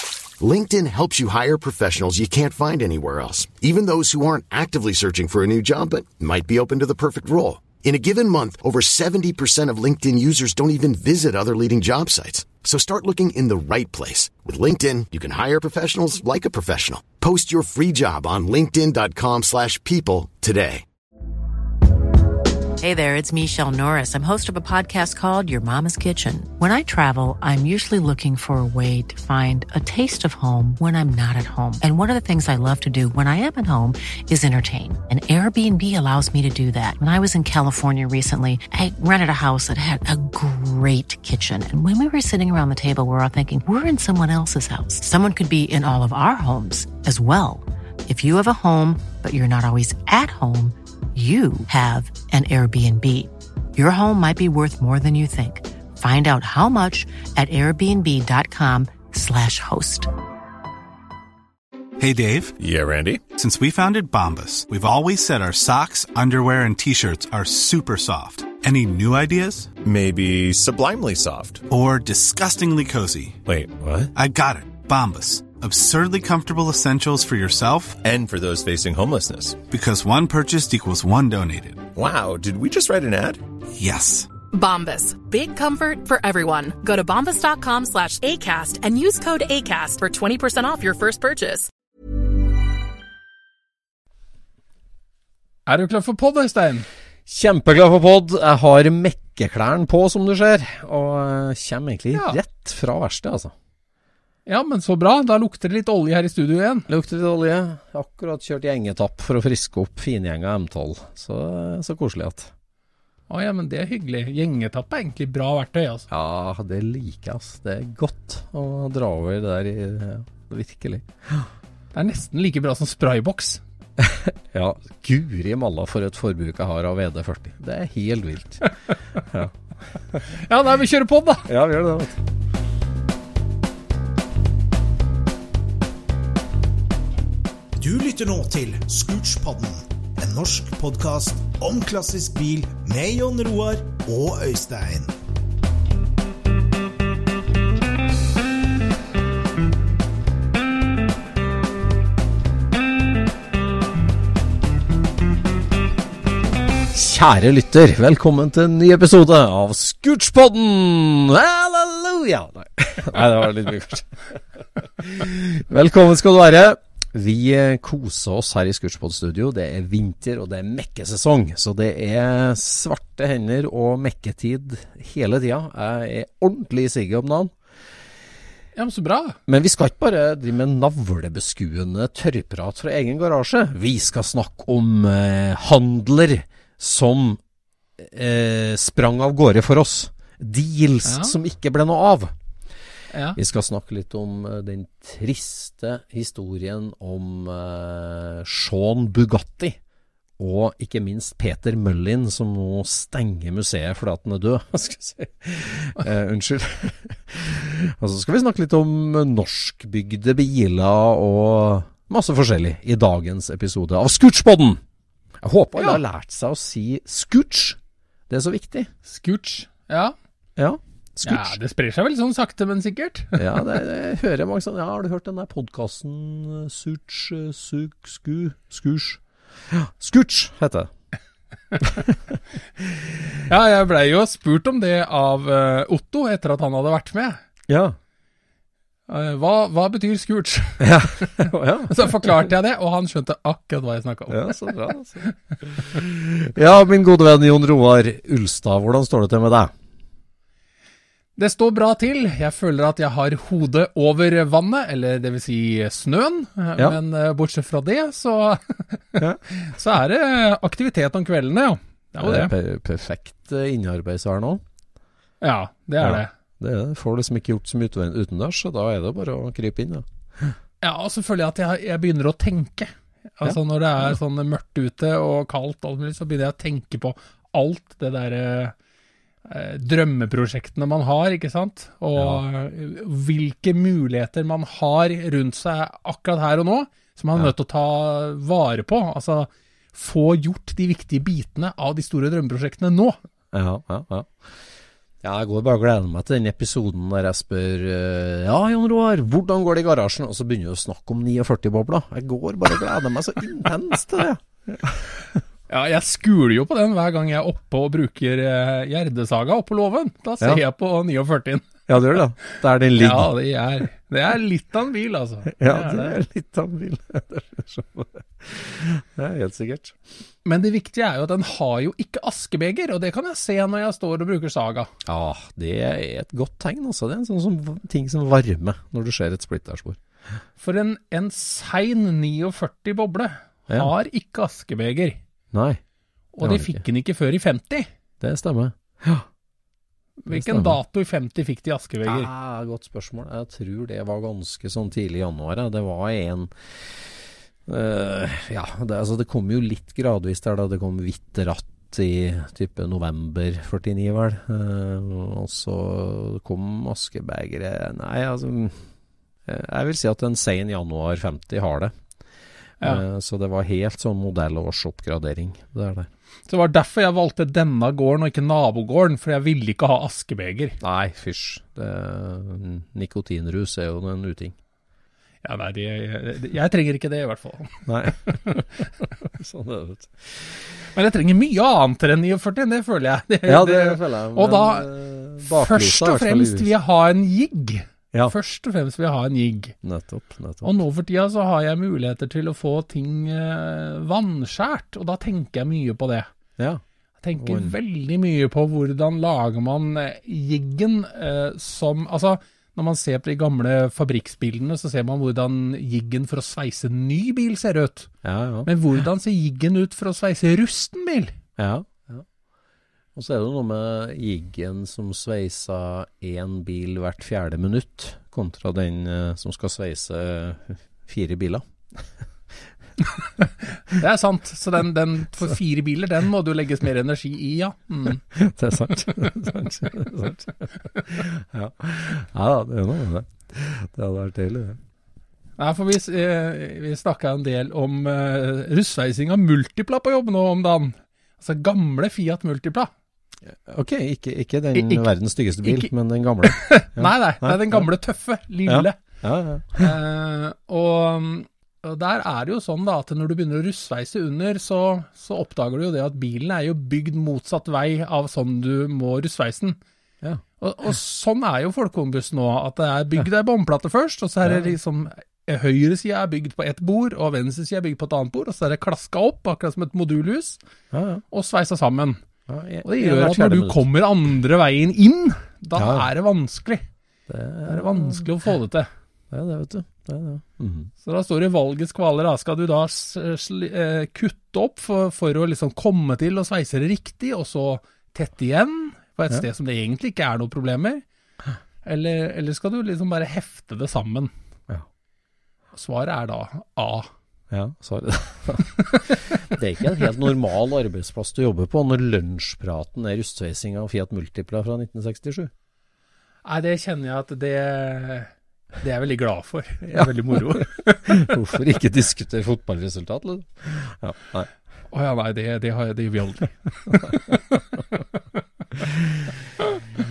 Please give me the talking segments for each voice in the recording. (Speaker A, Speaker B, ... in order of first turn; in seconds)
Speaker A: 0.4-20.8
Speaker B: 22.8-60.1
Speaker C: 62.0-62.6, 63.3-69.8, 71.7-73.4, 74.1-78.0, 79.7-81.9, 83.7-84.3
Speaker D: 62.6-63.2, 69.8-71.6, 73.5-74.1, 78.0-79.6, 82.0-83.4
Speaker E: 84.5-91.7
Speaker F: 95.7-96.9, 104.5-106.9, 113.3-116.0, 121.9-123.6, 130.3-131.5, 178.7-179.4, 191.0-191.3, 193.1-193.4, 219.1-220.1, 221.2-223.7, 233.4-237.4, 239.1-245.3, 251.3-262.5, 265.4-266.3, 270.8-278.7, 279.4-293.2, 305.7-311.7, 312.9-316.2, 320.4-324.9, 330.6-335.2, 336.3-337.9, 340.2-342.3, 366.5-370.8, 375.4-377.9, 380.9-384.9, 385.4-389.7, 390.6-396.3, 397.2-408.1, 408.6-411.3, 423.7-428.2, 435.6-442.9, 444.7-445.1, 445.6-445.9, 446.4-449.0, 449.8-459.8, 460.6-470.6, 471.3-472.2, 472.8-476.9, 477.7-478.9, 481.0-491.0, 491.8-494.3, 495.7-497.1, 506.4-511.3, 514.9-517.4
Speaker G: 97.3-103.5, 106.9-112.5, 116.1-121.5, 124.0-129.5, 131.5-132.2, 156.9-177.5, 179.5-187.4, 188.0-192.3, 193.3-199.8, 200.4-214.8, 215.4-218.9, 220.6-221.6, 223.3-230.9, 231.8-233.3, 237.7-238.0, 240.8-242.5, 244.3-249.7, 262.2-264.6, 266.0-270.6, 282.1-282.4, 293.5-294.7, 295.2-305.1, 311.9-313.3, 315.4-320.0, 325.1-330.0, 335.5-335.8, 336.4-336.8, 338.2-339.3, 340.3-340.8, 342.0-347.1, 347.6-358.9, 359.4-361.9, 362.8-366.1, 370.8-374.6, 377.9-380.6, 383.4-386.7, 389.8-390.8, 396.6-396.8, 397.4-397.7, 408.2-408.7, 411.6-412.2, 413.1-422.1, 428.3-434.8, 443.4-447.9, 448.6-449.9, 464.4-464.7, 470.9-471.2, 472.5-473.8, 475.8-476.1, 477.3-478.3, 479.3-480.9, 497.5-505.5, 509.8-514.5, 518.7-519.3
Speaker H: 137.8-145.1